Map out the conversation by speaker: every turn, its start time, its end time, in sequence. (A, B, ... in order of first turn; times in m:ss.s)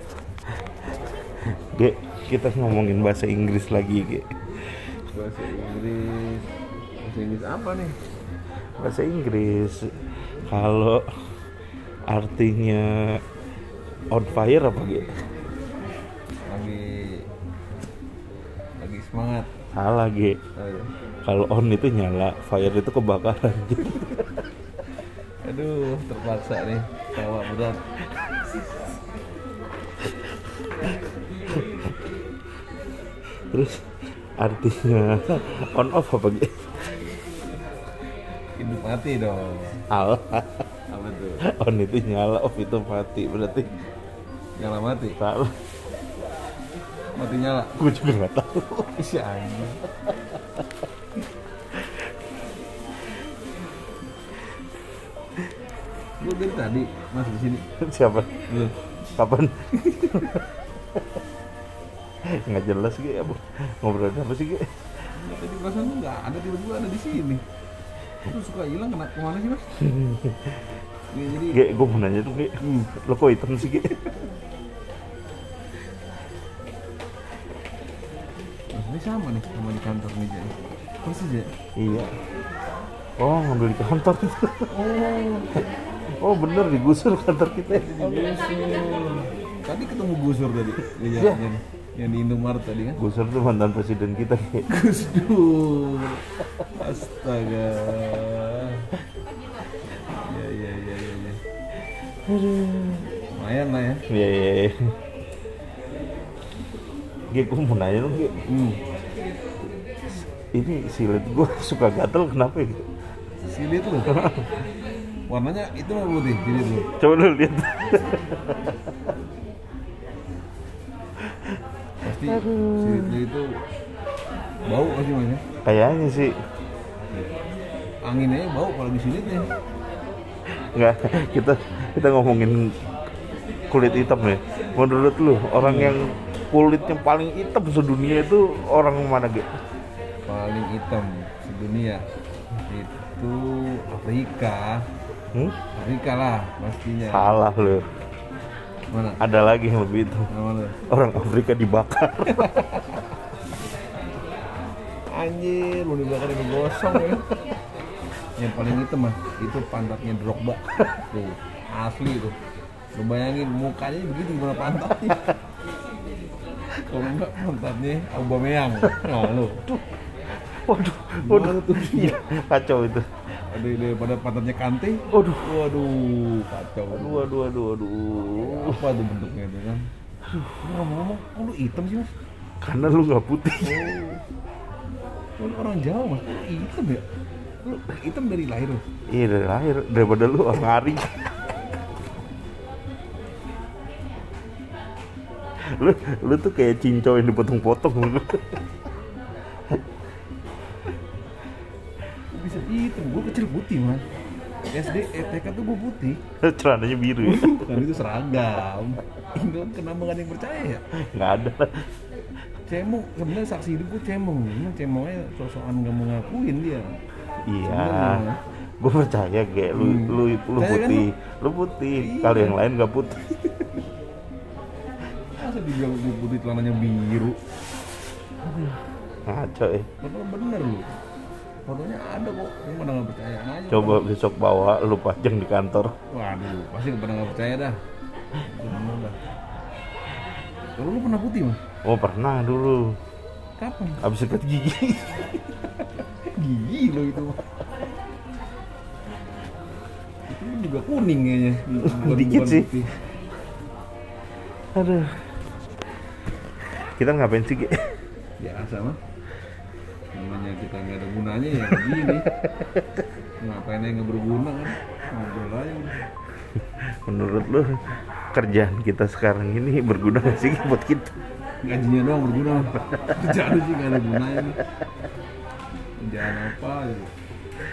0:01.3-0:04.8 A
0:05.1-0:08.0 B
0:08.8-0:11.1 A
0:12.1-0:13.2 A
0:14.1-0:15.1 A
0:16.4-0:17.3 B
0:18.8-0:19.5 B
0:19.7-0:20.4 A
0:20.6-0:20.9 B
0:21.2-0:24.3 A
0:25.4-0:27.8 B
0:30.6-0:32.1 A
0:33.5-0:33.8 A
0:34.4-0:37.0 A
0:38.6-0:39.8 B
0:39.9-0:40.6 A
0:40.9-0:41.4 B
0:41.4-0:43.7 A
0:44.6-0:45.2 B
0:45.2-0:45.6 A
0:47.1-0:47.7 B
0:47.8-0:49.0 A
0:48.9-0:49.8 B
0:56.2-0:57.7 B
0:57.8-0:58.5 A
0:58.5-0:58.9 B
0:59.1-1:00.4 A
0:59.7-1:00.4 B
1:02.2-1:04.7 A
1:05.1-1:07.4 B
1:08.2-1:09.9 B
1:09.8-1:10.6 A
1:11.1-1:11.6 B
1:11.5-1:14.0 A
1:12.6-1:13.0 B
1:18.7-1:21.5 B
1:21.8-1:22.2 A
1:23.2-1:24.8 A
1:24.7-1:25.7 B
1:26.1-1:28.3 A
1:27.7-1:33.0 B
1:31.1-1:31.4 A
1:33.0-1:34.7 A
1:34.7-1:38.9 B
1:40.2-1:41.4 B
1:42.2-1:43.1 A
1:43.1-1:44.0 B
1:44.1-1:44.9 A
1:47.3-1:48.4 A
1:48.4-1:48.8 B
1:50.1-1:52.9 A
1:53.4-1:54.2 B
1:54.1-1:54.5 A
1:55.3-1:56.9 B
1:56.9-1:58.9 A
2:02.0-2:03.6 B
2:02.2-2:03.2 A
2:04.6-2:05.4 B
2:05.6-2:06.4 A
2:08.0-2:09.5 B
2:10.7-2:12.8 A
2:13.7-2:19.5 A
2:15.6-2:16.2 B
2:20.2-2:22.0 B
2:22.7-2:24.9 B
2:25.7-2:27.4 B
2:27.1-2:27.9 A
2:28.9-2:29.2 B
2:29.2-2:30.3 A
2:30.3-2:30.8 B
2:30.8-2:32.7 A
2:32.3-2:33.1 B
2:35.1-2:37.4 B
2:38.4-2:42.4 B
2:42.9-2:45.4 B
2:46.8-2:49.7 B
2:50.4-2:53.0 A
2:51.2-2:52.2 B
2:53.5-2:57.3 B
2:55.1-2:55.5 A
2:56.9-2:58.8 A
2:58.3-2:59.9 B
3:00.5-3:02.1 B
3:02.6-3:03.9 A
3:03.6-3:04.2 B
3:05.4-3:07.0 B
3:07.6-3:08.8 B
3:09.1-3:11.2 A
3:15.6-3:18.6 A
3:22.3-3:24.0 B
3:24.7-3:26.2 B
3:26.4-3:27.7 A
3:27.2-3:30.8 B
3:30.9-3:31.9 A
3:32.6-3:37.0 B
3:37.4-3:38.2 A
3:37.6-3:38.4 B
3:38.8-3:43.4 A
3:39.7-3:41.1 B
3:42.0-3:42.6 B
3:43.5-3:43.8 B
3:45.4-3:47.4 B
3:48.4-3:48.7 A
3:49.2-3:49.9 A
3:50.0-3:50.9 B
3:51.6-3:54.0 B
3:53.7-3:55.9 A
3:56.1-3:57.8 B
3:58.4-3:59.2 B
4:00.8-4:01.6 B
4:01.8-4:03.0 A
4:03.6-4:04.0 B
4:04.0-4:05.4 A
4:05.8-4:07.6 B
4:10.3-4:13.0 B
4:11.8-4:12.7 A
4:14.7-4:15.3 A
4:16.6-4:17.9 A
4:18.4-4:19.0 B
4:20.1-4:22.3 B
4:23.4-4:26.0 B
4:26.6-4:31.1 A
4:31.6-4:34.6 B
4:36.0-4:37.1 B